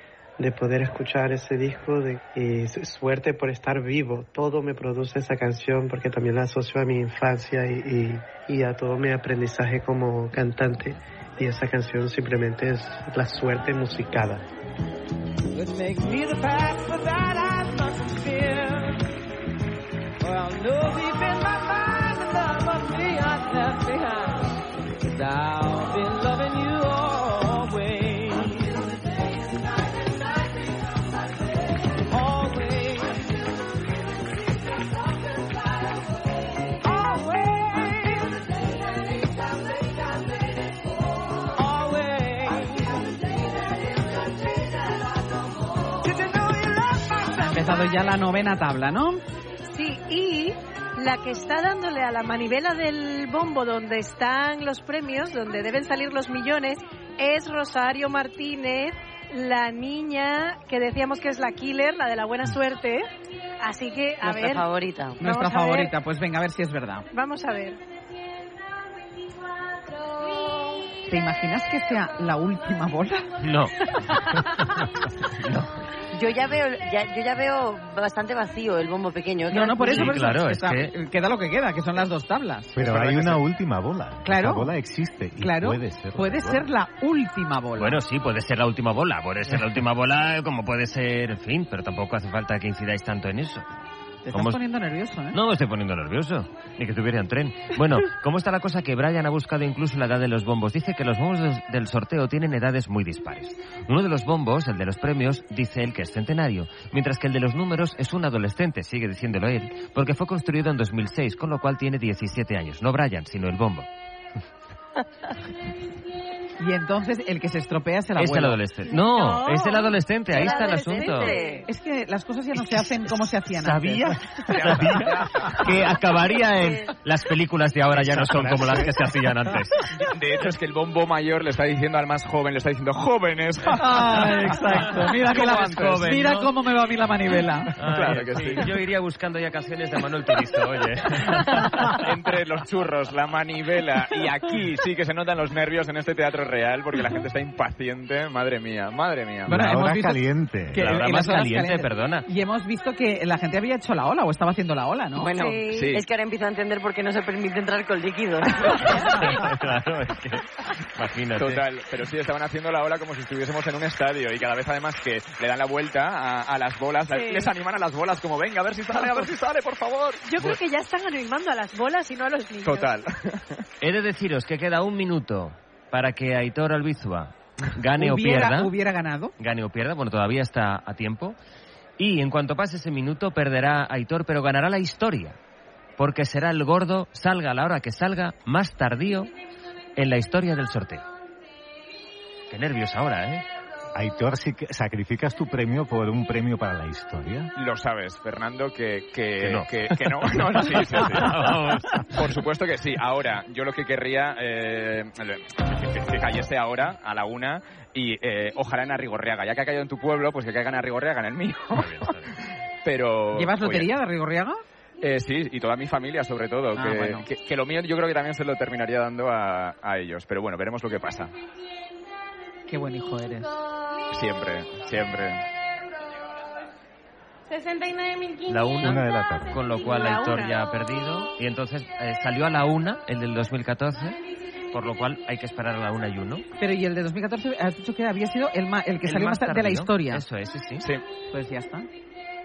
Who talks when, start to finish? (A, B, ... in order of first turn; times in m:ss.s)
0:00.4-0:14.4 A
0:15.7-0:18.6 B
0:20.5-0:24.0 B
0:25.2-0:28.4 B
0:41.9-0:42.4 B
0:47.3-0:49.2 C
0:49.7-1:03.1 D
1:03.6-1:04.7 D
1:04.2-1:05.2 E
1:05.2-1:07.1 C
1:05.2-1:05.9 D
1:07.1-1:07.8 D
1:11.1-1:13.3 C
1:13.4-1:14.3 F
1:15.3-1:15.8 F
1:16.1-1:20.1 E
1:19.5-1:23.4 C
1:19.9-1:20.9 F
1:22.7-1:26.7 G
1:24.2-1:24.7 C
1:25.4-1:28.0 C
1:27.8-1:33.6 F
1:34.2-1:35.4 C
1:34.3-1:34.6 F
1:35.3-1:53.9 F
1:56.6-1:58.6 C
1:58.2-2:01.4 F
1:58.9-2:01.7 D
2:00.3-2:01.6 E
2:01.7-2:04.9 C
2:02.6-2:09.8 F
2:04.5-2:05.9 H
2:06.5-2:06.9 E
2:10.0-2:13.8 H
2:13.8-2:17.7 C
2:14.0-2:16.5 F
2:15.4-2:16.0 H
2:17.8-2:22.0 F
2:17.9-2:18.7 H
2:22.0-2:29.6 H
2:29.5-2:35.3 C
2:29.5-2:30.9 G
2:30.8-2:32.3 F
2:35.2-2:39.0 E
2:35.7-2:36.0 H
2:39.0-2:41.6 F
2:41.4-2:50.2 H
2:47.1-2:47.5 D
2:49.0-2:49.2 D
2:50.2-2:52.9 D
2:52.6-2:53.6 H
2:53.8-2:58.7 F
2:58.0-2:59.3 C
2:59.4-3:01.4 F
3:02.0-3:05.4 F
3:06.0-3:09.3 F
3:10.0-3:11.0 F
3:12.5-3:13.4 F
3:13.9-3:17.5 G
3:17.6-3:21.3 H
3:19.4-3:22.4 F
3:22.1-3:32.1 H
3:31.8-3:32.4 F
3:32.8-3:33.9 H
3:33.4-3:34.6 C
3:35.0-3:41.3 H
3:36.8-3:37.3 C
3:42.7-3:43.6 C
3:44.1-3:45.4 H
3:48.5-3:54.2 F
3:48.8-3:49.6 G
3:49.8-3:50.6 D
3:54.7-3:56.4 F
3:56.6-4:00.2 C
3:59.0-4:00.9 F
4:01.3-4:01.9 C